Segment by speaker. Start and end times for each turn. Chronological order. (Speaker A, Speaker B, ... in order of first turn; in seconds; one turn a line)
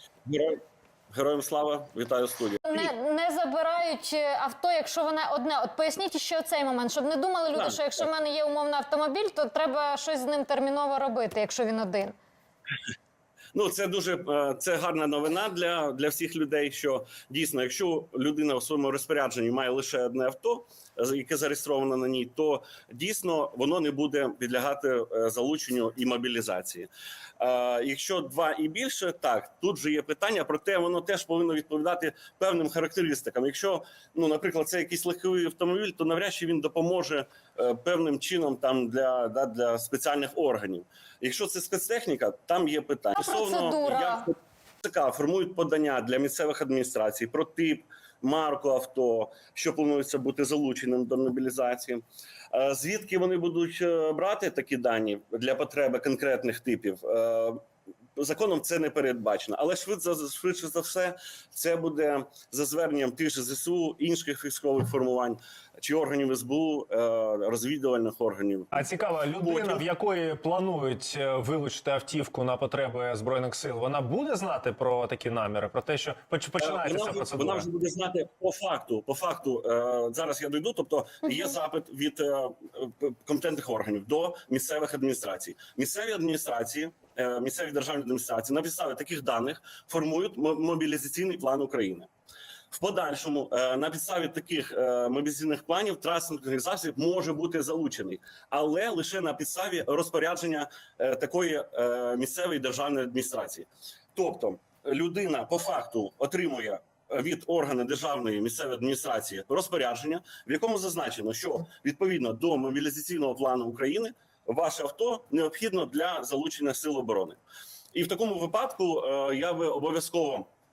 Speaker A: 0.2-0.6
Speaker A: 1.1-2.9
Speaker B: 2.7-12.2
Speaker A: 7.5-8.1
Speaker A: 13.5-57.6
Speaker B: 43.2-44.3
Speaker A: 58.2-68.8
Speaker C: 68.7-77.7
Speaker A: 69.4-69.8
Speaker A: 76.6-92.1
Speaker A: 92.7-117.4
Speaker A: 117.9-120.5